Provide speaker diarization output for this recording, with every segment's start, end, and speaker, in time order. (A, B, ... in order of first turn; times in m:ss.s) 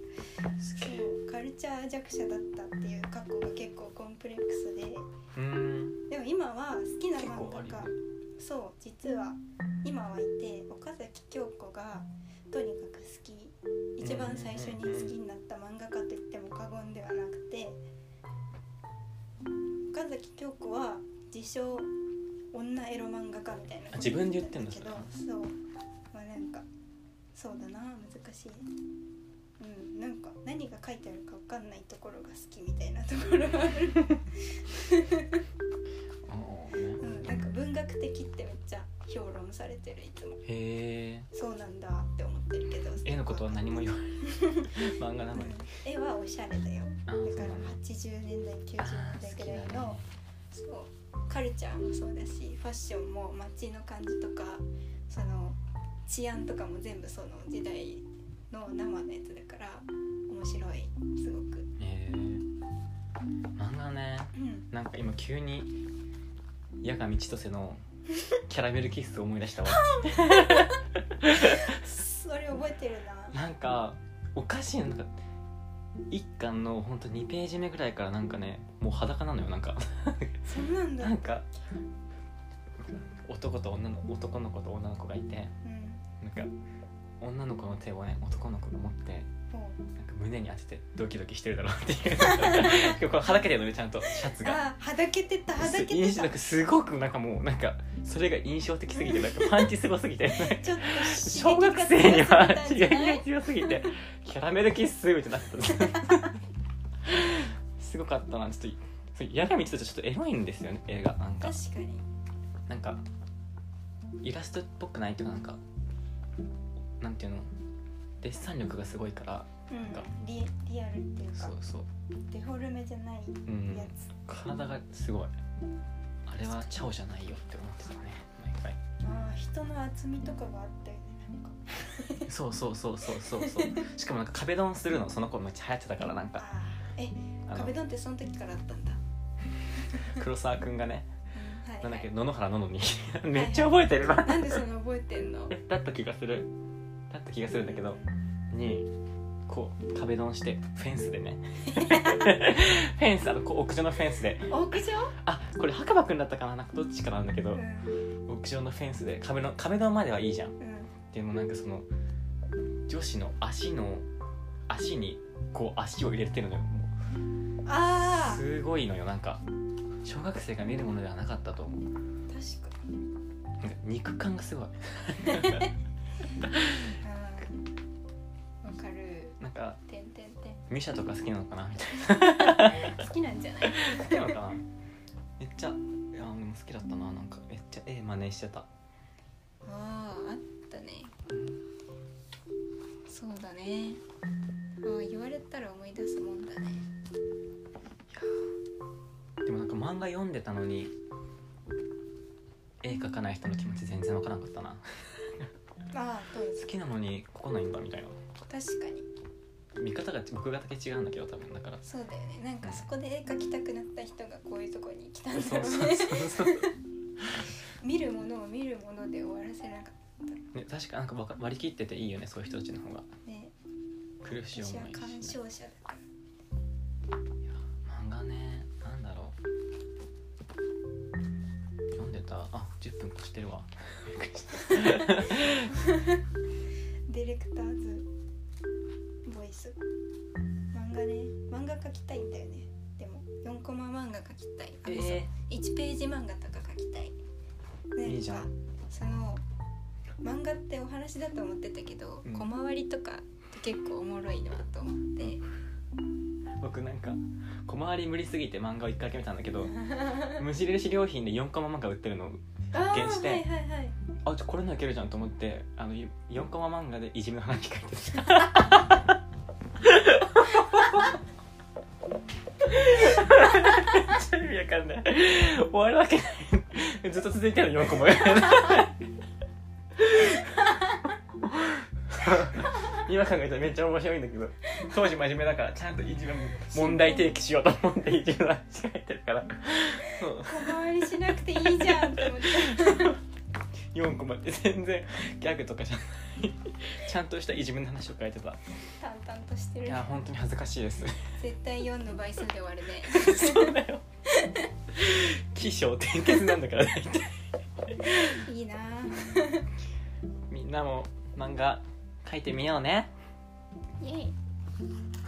0:00.6-0:01.1 A
0:00.8-0:05.1 B
0:05.4-0:06.0 A
0:06.1-0:17.8 B
0:07.2-0:08.0 A
0:14.0-0:15.1 A
0:19.9-0:21.9 B
0:22.5-0:25.5 B
0:23.9-0:25.1 A
0:26.1-0:26.6 B
0:27.4-0:28.7 B
0:29.6-0:35.4 B
0:36.3-0:37.0 A
0:37.0-0:40.4 B
0:40.4-0:41.3 A
0:41.3-0:44.8 B
0:43.0-0:45.6 A
0:45.3-0:50.0 B
0:47.1-0:47.8 A
0:48.8-0:50.1 A
0:50.5-1:01.7 B
1:01.8-1:02.4 A
1:03.6-1:05.8 A
1:04.4-1:04.7 B
1:06.8-1:07.8 A
1:08.5-1:11.7 A
1:09.7-1:10.8 B
1:11.3-1:13.4 B
1:13.3-1:15.1 A
1:16.1-1:20.4 A
1:20.4-1:21.3 B
1:21.0-1:21.5 A
1:22.8-1:25.5 A
1:25.6-1:26.0 B
1:26.2-1:26.5 A
1:27.2-1:29.3 A
1:29.5-1:29.8 B
1:30.0-1:34.6 A
1:32.2-1:33.0 B
1:34.1-1:36.4 B
1:35.6-1:46.4 A
1:38.9-1:39.7 B
1:40.3-1:43.9 B
1:47.0-1:51.6 A
1:51.4-1:52.1 B
1:52.7-1:53.0 A
1:54.2-1:55.6 A
1:57.0-1:57.5 A
1:58.2-2:00.1 A
1:59.7-2:01.6 B
2:01.4-2:01.9 A
2:02.3-2:04.1 B
2:03.5-2:05.4 A
2:06.3-2:08.8 A
2:06.4-2:06.8 B
2:09.0-2:12.3 B
2:12.3-2:16.4 A
2:13.1-2:13.9 B
2:16.4-2:19.0 B
2:17.5-2:17.7 A
2:20.0-2:20.2 B
2:20.1-2:21.1 A
2:21.3-2:22.1 B
2:21.8-2:24.6 A
2:23.3-2:25.6 B
2:25.5-2:26.5 A
2:27.1-2:28.0 A
2:27.6-2:28.1 B
2:28.5-2:28.9 A
2:29.5-2:37.6 A
2:31.6-2:32.4 B
2:34.5-2:35.2 B
2:37.5-2:38.0 B
2:38.3-2:40.6 A
2:40.6-2:40.9 B
2:41.1-2:41.9 A
2:42.9-2:44.1 A
2:44.7-2:46.9 A
2:47.6-2:48.4 B
2:48.0-2:49.4 A
2:50.0-2:51.9 A
2:52.3-2:52.8 B
2:53.6-2:55.7 A
2:55.3-2:55.7 B
2:56.5-2:56.9 A
2:57.0-2:57.7 B
2:58.6-3:00.6 B
2:59.4-2:59.8 A
3:00.7-3:03.0 A
3:02.2-3:04.4 B
3:03.6-3:04.7 A
3:05.4-3:08.7 A
3:09.7-3:11.1 B
3:11.3-3:11.6 A
3:13.1-3:14.0 B
3:14.8-3:16.9 B
3:18.1-3:18.4 A
3:19.4-3:20.9 A
3:22.8-3:24.8 A
3:25.9-3:26.7 B
3:26.6-3:28.2 A
3:28.5-3:29.1 B
3:29.8-3:31.8 A
3:31.8-3:36.8 B
3:35.3-3:36.7 A
3:37.7-3:40.4 B
3:40.5-3:43.1 A
3:43.2-3:43.5 B
3:44.2-3:45.4 A
3:44.5-3:46.0 B
3:47.4-3:49.4 A
3:51.9-3:55.7 A
3:54.7-3:56.2 B
3:57.1-3:58.1 B
3:59.2-3:59.8 B
4:00.7-4:07.2 B
4:04.8-4:05.3 A
4:08.0-4:09.4 B
4:08.0-4:08.5 A
4:10.2-4:15.4 B
4:16.6-4:23.5 A
4:19.8-4:20.4 B
4:22.7-4:24.0 B
4:24.2-4:29.2 A
4:29.8-4:31.1 A
4:32.6-4:39.0 A
4:40.0-4:40.6 A
4:41.5-4:53.2 A
4:46.7-4:47.3 B
4:50.0-4:53.2 B
4:53.9-4:58.6 A
4:59.0-5:00.1 B
4:59.9-5:01.4 A
5:01.4-5:03.8 B
5:03.0-5:04.0 A
5:04.3-5:04.7 B
5:04.9-5:07.4 A
5:08.0-5:08.4 A
5:08.3-5:09.7 B
5:10.5-5:13.1 A
5:14.0-5:14.4 B